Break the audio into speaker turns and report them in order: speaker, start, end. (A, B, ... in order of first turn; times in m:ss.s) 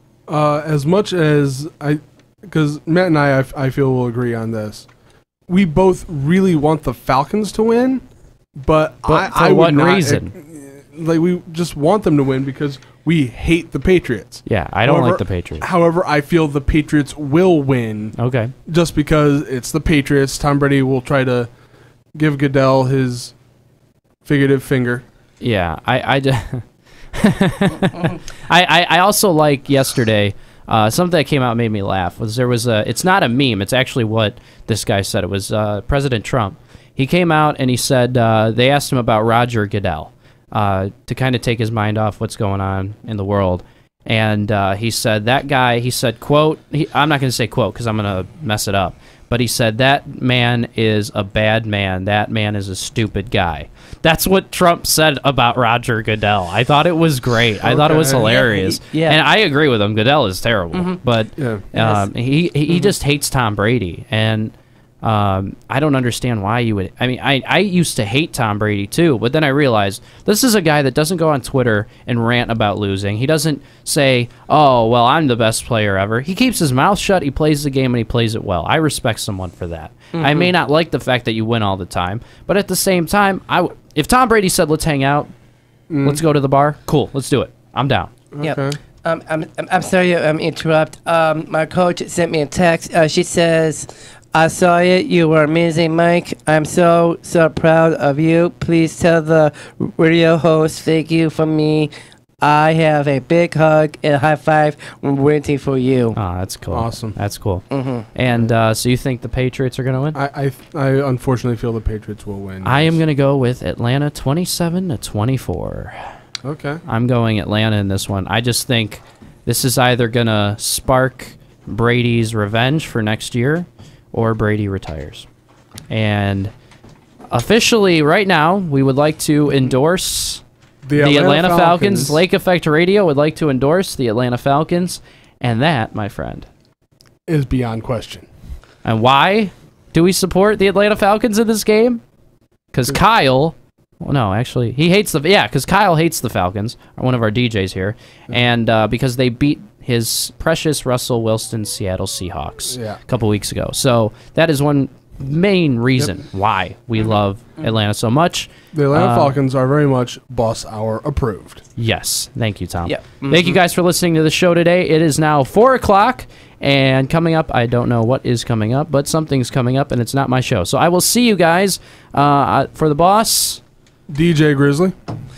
0:00.3-0:04.9 A
0:05.5-0:21.5 A
0:09.0-0:10.3 B
0:14.5-0:15.7 B
0:18.2-0:18.6 B
0:22.1-0:23.4 A
0:24.2-0:25.0 A
0:25.4-1:25.3 B
0:57.6-0:58.4 A
0:58.2-0:59.2 C
1:00.7-1:01.0 C
1:01.4-1:01.6 A
1:01.7-1:02.1 C
1:02.7-1:02.9 C
1:20.2-1:20.5 C
1:25.9-1:26.2 A
1:26.0-1:28.1 B
1:28.3-1:28.8 A
1:28.4-1:46.2 C
1:46.2-1:50.2 B
1:46.7-1:47.2 A
1:47.7-1:48.1 C
1:50.1-1:53.0 A
1:52.6-1:56.1 B
1:56.4-1:56.8 A
1:56.9-2:05.3 B
2:05.9-2:06.5 B
2:07.3-2:10.4 B
2:10.8-2:12.2 A
2:11.0-2:16.5 B
2:17.3-2:18.3 A
2:18.8-2:22.0 B
2:22.7-2:39.4 B
2:32.7-2:33.0 A
2:38.7-2:41.6 A
2:41.8-2:53.6 B
2:42.8-2:43.6 C
2:54.1-2:55.0 A